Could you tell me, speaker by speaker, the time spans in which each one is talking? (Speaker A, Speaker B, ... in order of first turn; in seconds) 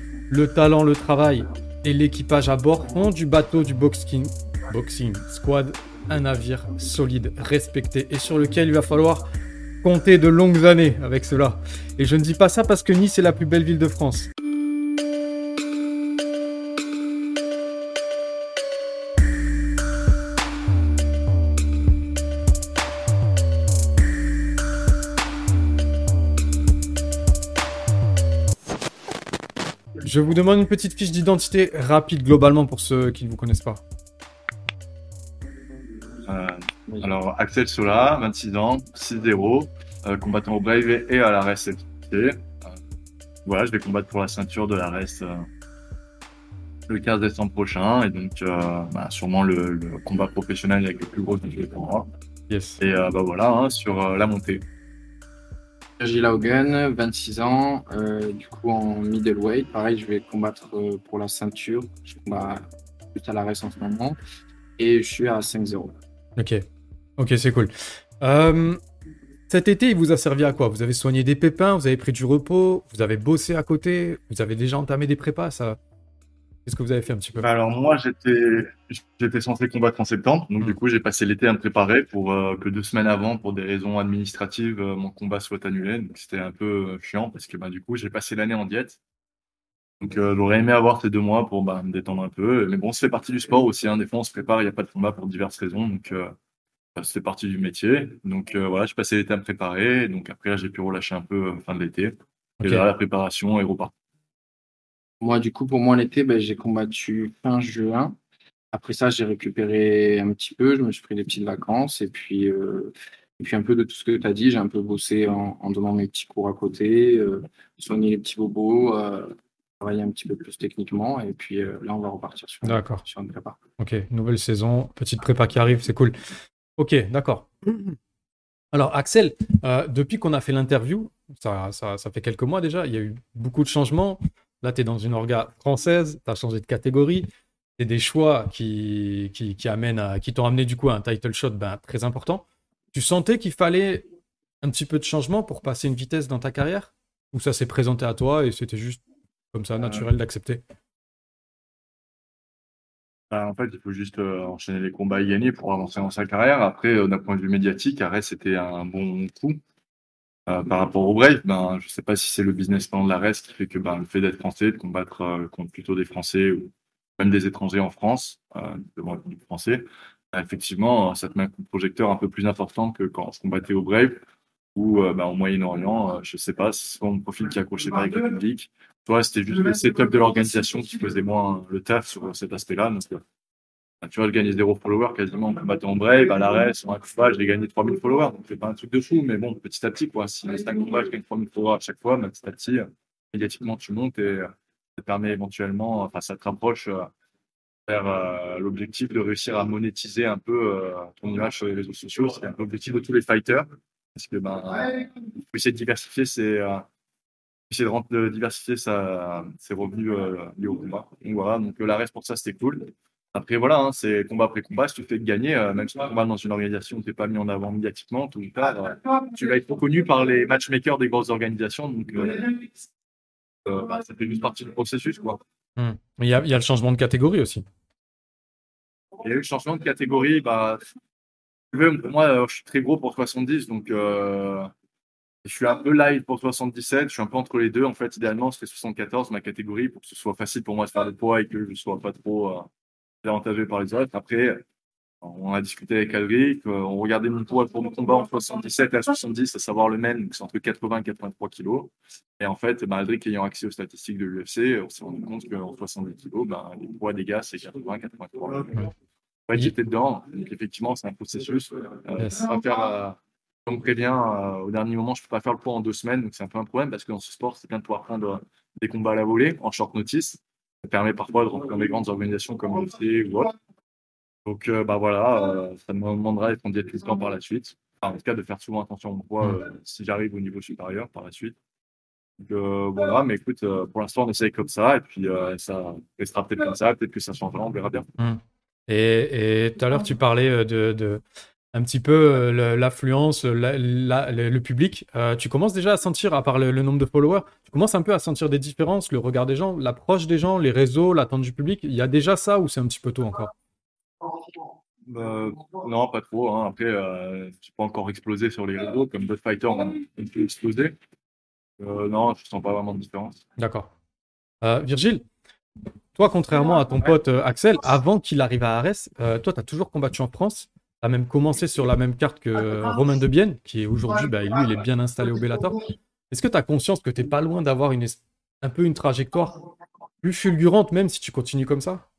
Speaker A: 0.3-9.2, 9.8-14.3, 30.0-33.8, 52.5-52.8, 66.4-66.6, 67.2-68.8, 69.5-75.8, 76.7-77.5, 122.7-123.0, 123.8-126.2, 126.8-128.0, 128.7-144.1, 144.6-149.0, 149.5-150.6, 225.8-227.7, 279.4-279.7, 288.2-303.5, 313.6-313.9, 314.6-315.2, 316.1-329.6, 330.2-332.0
Speaker B: 36.3-42.7, 43.5-45.5, 46.9-52.1, 52.8-54.6, 77.4-89.0, 90.0-96.3, 97.0-103.9, 153.3-159.6, 160.5-174.2, 174.8-183.2, 184.0-197.1, 197.9-206.8, 207.7-222.7, 223.7-225.4, 229.2-230.8, 231.7-234.7, 235.4-242.7, 243.2-244.6, 245.2-258.7, 259.5-273.6, 274.5-281.6, 282.4-288.1, 305.1-310.9, 311.8-313.4
Speaker C: 56.0-64.2, 64.8-66.0, 105.2-108.2, 108.7-123.6